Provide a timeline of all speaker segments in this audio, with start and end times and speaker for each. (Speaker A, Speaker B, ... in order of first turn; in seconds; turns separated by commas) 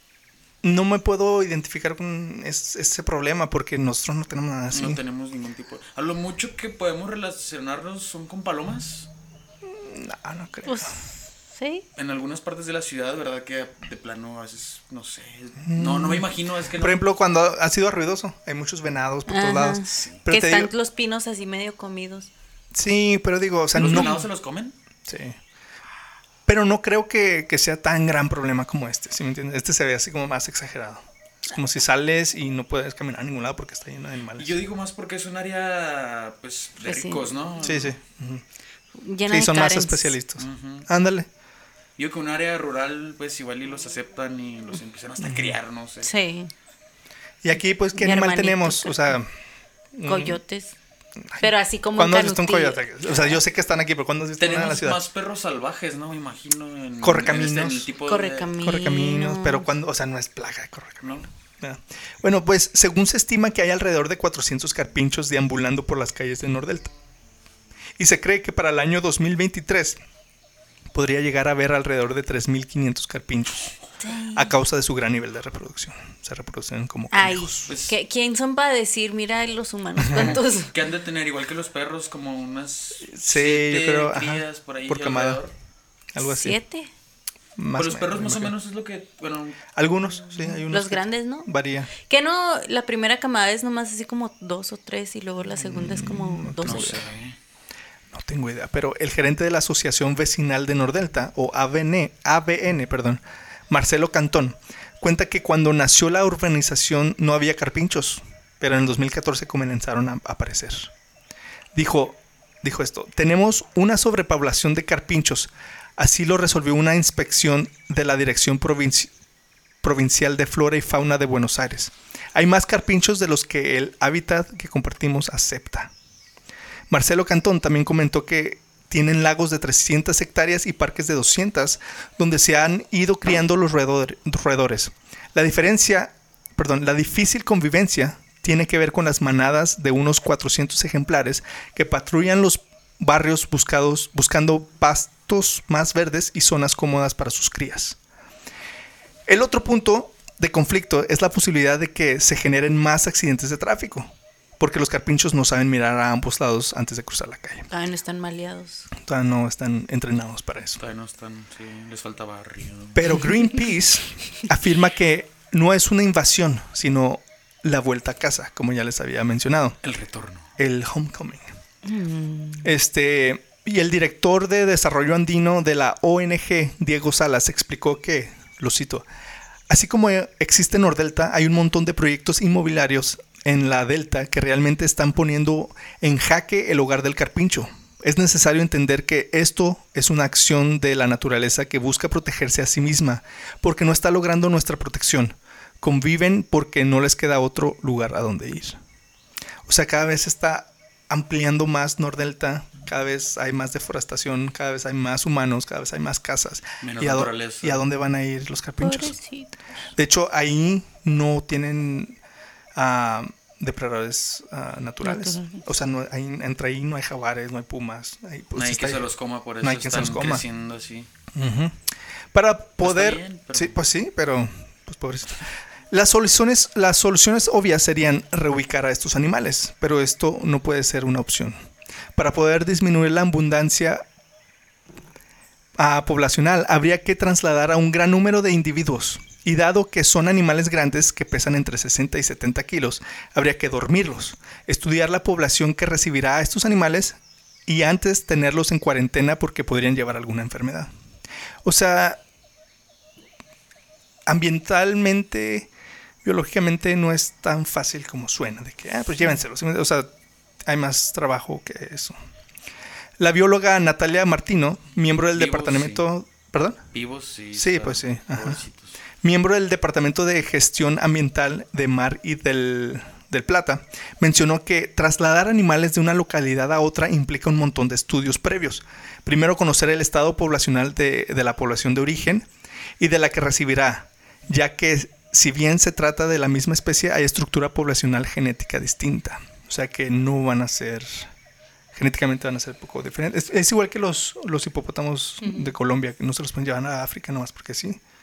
Speaker A: 0.6-5.0, Speaker B: 4.7-9.1, Speaker A: 9.7-11.0, Speaker C: 10.7-11.8, Speaker B: 12.0-17.0, Speaker A: 15.6-16.2, Speaker A: 16.8-20.7, Speaker C: 19.3-22.3, Speaker B: 19.9-20.2, Speaker A: 22.7-24.2, Speaker B: 23.7-24.8, Speaker C: 23.8-24.2, Speaker A: 25.1-25.4, Speaker A: 26.5-34.6, Speaker B: 34.4-38.0, Speaker C: 36.9-37.3, Speaker A: 37.6-38.4, Speaker C: 39.0-40.2, Speaker A: 39.3-41.3, Speaker B: 40.4-40.9, Speaker B: 42.0-46.1, Speaker A: 45.2-45.6, Speaker C: 46.0-46.5, Speaker A: 47.4-49.3, Speaker C: 47.9-49.2, Speaker A: 49.9-50.4, Speaker C: 50.0-50.8, Speaker A: 51.3-55.0, Speaker C: 51.4-53.2, Speaker B: 54.4-58.5, Speaker A: 57.0-57.9, Speaker C: 58.1-59.7, Speaker A: 58.6-66.9, Speaker A: 68.0-70.0, Speaker A: 70.9-73.7, Speaker C: 74.0-74.5, Speaker A: 74.3-77.7, Speaker C: 77.1-80.7, Speaker B: 77.7-78.0, Speaker A: 80.0-80.4, Speaker B: 80.1-85.5, Speaker A: 83.0-85.4, Speaker A: 86.1-86.6, Speaker C: 86.2-86.9, Speaker A: 87.6-88.5, Speaker B: 87.8-89.6, Speaker A: 89.8-91.9, Speaker C: 90.6-91.5, Speaker C: 92.1-97.0, Speaker A: 95.5-97.1, Speaker B: 96.6-97.4, Speaker A: 98.1-110.9, Speaker A: 111.7-119.1, Speaker A: 119.8-125.9, Speaker A: 126.9-148.0, Speaker A: 149.3-157.7, Speaker C: 157.7-158.9, Speaker A: 159.0-160.8, Speaker B: 160.8-163.2, Speaker A: 162.9-169.8, Speaker B: 169.8-170.5, Speaker A: 170.6-171.5, Speaker C: 171.8-172.7, Speaker A: 172.6-179.1, Speaker A: 179.7-198.8, Speaker A: 199.7-209.2, Speaker B: 206.8-207.8, Speaker C: 208.8-209.6, Speaker A: 210.0-212.2, Speaker A: 212.8-219.1, Speaker C: 215.0-215.6, Speaker B: 218.6-221.1, Speaker A: 219.6-220.4, Speaker A: 221.3-221.8, Speaker A: 222.3-231.6, Speaker B: 222.8-223.8, Speaker A: 232.2-234.1, Speaker A: 235.8-250.9, Speaker A: 251.6-252.2, Speaker A: 254.3-255.7, Speaker A: 256.2-260.1, Speaker A: 260.7-262.1, Speaker A: 263.2-266.9, Speaker B: 265.3-266.1, Speaker B: 266.9-269.0, Speaker A: 267.5-268.6, Speaker A: 269.2-282.5, Speaker A: 283.0-291.3, Speaker A: 291.9-298.0, Speaker C: 295.4-295.7